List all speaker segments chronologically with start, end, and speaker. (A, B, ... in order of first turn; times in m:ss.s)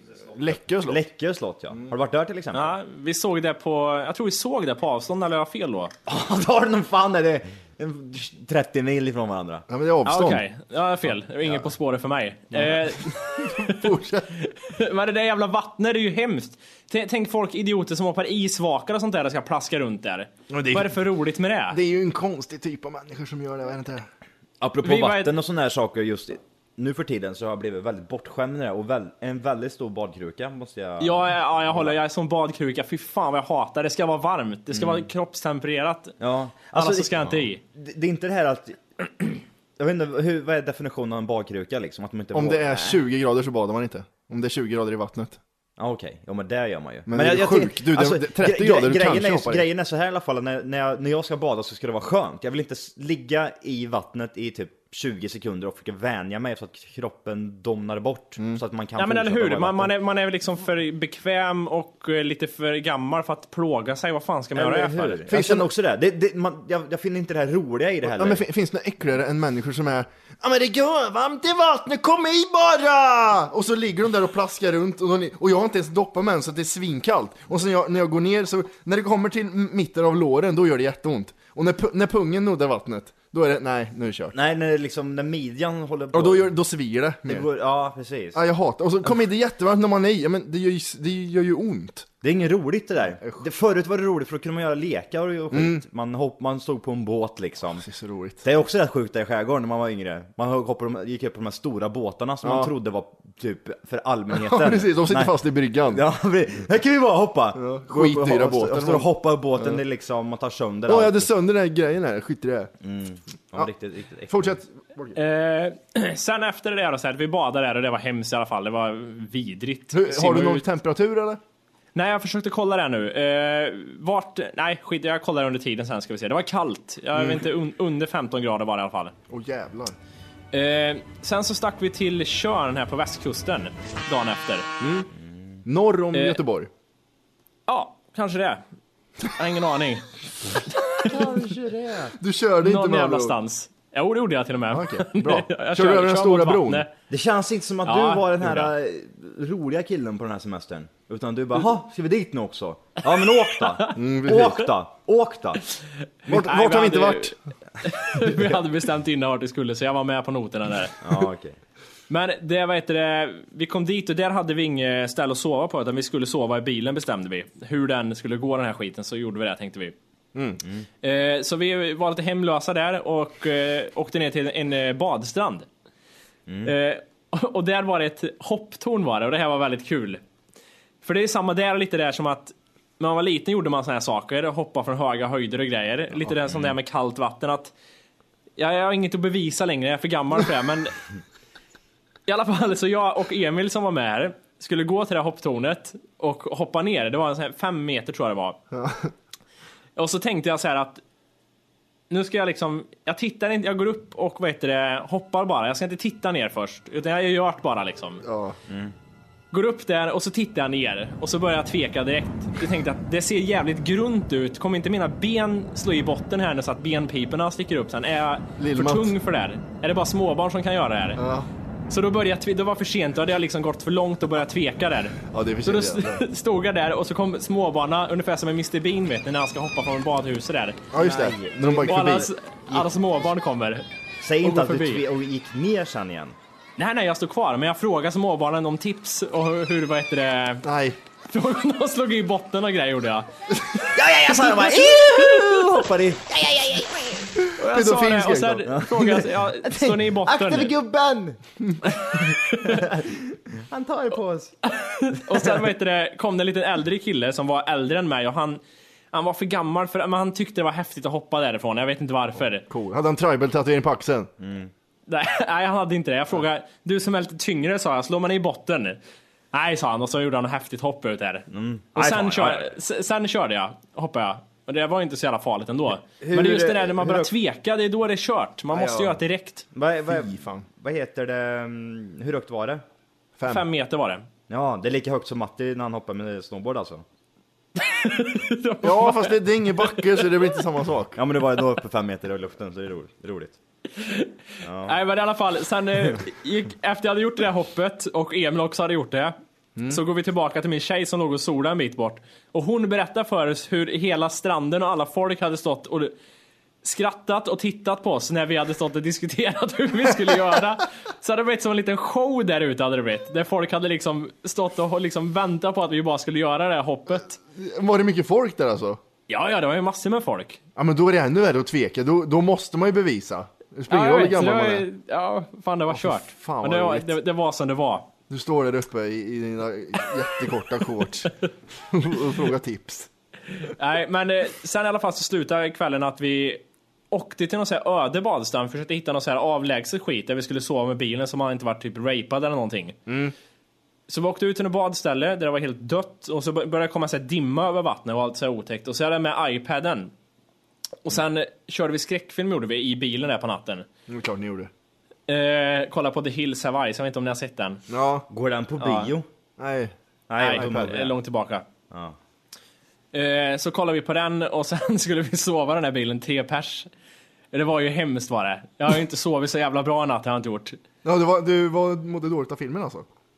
0:00.3-0:01.0 A
0:00.8-0:02.7 B
0:02.5-0:05.9 C
0:06.0-0:09.6 B
0:09.7-0:10.4 A
0:10.0-0:21.8 C
0:13.4-0:14.3 A
0:20.5-0:21.0 A
0:21.7-0:24.1 A
0:24.6-0:32.0 B
0:24.8-0:25.3 C
0:31.0-0:36.1 C
0:34.7-0:35.1 B
0:36.2-0:43.0 B
0:36.7-0:37.6 C
0:42.3-0:45.4 A
0:45.8-0:59.9 B
0:47.1-0:49.6 A
0:59.0-1:05.2 C
1:04.5-1:08.4 B
1:05.3-1:05.7 A
1:08.0-1:24.3 A
1:24.3-1:26.5 B
1:26.1-1:27.4 A
1:27.2-1:28.4 B
1:28.3-1:32.1 A
1:32.2-1:37.9 B
1:35.5-1:35.8 A
1:37.8-1:38.4 A
1:38.4-1:45.3 B
1:42.4-1:42.7 A
1:44.3-1:46.0 A
1:45.9-1:51.3 B
1:47.5-1:49.8 A
1:50.9-1:52.7 A
1:52.8-1:54.6 B
1:54.3-1:55.2 A
1:55.2-2:00.6 C
1:59.9-2:01.4 A
2:01.9-2:09.1 C
2:07.1-2:07.4 A
2:09.3-2:10.0 A
2:10.5-2:14.7 C
2:14.8-2:15.1 A
2:15.6-2:16.7 A
2:16.1-2:16.4 C
2:17.7-2:18.6 C
2:19.3-2:20.1 C
2:20.9-2:21.1 C
2:20.9-2:22.2 B
2:22.2-2:23.4 A
2:22.6-2:26.9 C
2:24.7-2:26.8 A
2:27.1-2:35.6 B
2:27.8-2:28.7 C
2:33.9-2:34.6 A
2:36.2-2:41.0 C
2:36.3-2:37.3 A
2:41.0-2:41.6 B
2:42.1-2:49.9 C
2:50.3-2:50.6 A
2:51.0-2:55.7 C
2:56.5-2:56.7 B
2:56.6-3:00.2 C
3:01.0-3:07.7 C
3:06.4-3:06.7 B
3:08.6-3:11.0 C
3:12.3-3:18.6 C
3:18.7-3:19.1 A
3:20.0-3:21.0 C
3:22.1-3:28.2 C
3:28.2-3:28.6 A
3:28.7-3:28.9 B
3:29.5-3:41.2 C
3:38.6-3:39.1 A
3:41.2-3:41.5 A
3:41.9-3:50.8 C
3:45.3-3:46.2 A
3:50.9-3:52.3 A
3:50.9-3:52.8 B
3:51.8-3:53.8 C
3:54.2-3:56.4 B
3:54.4-3:55.0 C
3:56.8-4:00.6 C
4:00.6-4:01.0 A
4:01.3-4:03.3 C
4:03.9-4:07.3 B
4:05.1-4:05.6 C
4:07.4-4:08.7 A
4:07.5-4:10.7 C
4:08.7-4:11.4 B
4:11.9-4:12.8 C
4:12.6-4:14.6 B
4:14.7-4:18.6 C
4:19.1-4:22.7 C
4:22.7-4:24.3 A
4:24.4-4:24.7 B
4:25.1-4:29.0 C
4:29.5-4:39.6 C
4:31.5-4:32.7 B
4:36.2-4:37.3 B
4:38.7-4:39.2 A
4:39.7-4:42.8 B
4:40.1-4:40.6 A
4:43.4-4:43.6 A
4:43.5-4:44.2 C
4:44.5-4:47.0 B
4:47.8-4:50.3 C
4:48.8-4:51.2 A
4:51.2-4:53.6 B
4:53.9-4:54.3 C
4:54.6-4:55.0 B
4:54.8-4:59.3 C
4:59.8-5:00.0 A
4:59.9-5:06.1 C
5:06.8-5:17.4 C
5:17.5-5:19.0 A
5:19.3-5:20.6 C
5:20.8-5:24.8 A
5:23.9-5:28.1 C
5:25.9-5:27.1 A
5:28.3-5:33.1 A
5:33.6-5:43.0 C
5:43.1-5:43.3 A
5:44.1-5:50.1 C
5:51.0-5:53.8 C
5:54.1-5:54.7 A
5:55.3-5:57.8 C
5:57.9-5:58.3 A
5:58.3-5:59.2 B
5:58.8-5:59.1 C
5:59.6-5:59.9 A
6:00.3-6:01.1 B
6:00.4-6:01.6 C
6:00.5-6:01.0 A
6:01.9-6:02.2 B
6:03.1-6:06.9 C
6:07.5-6:10.8 C
6:11.0-6:13.1 A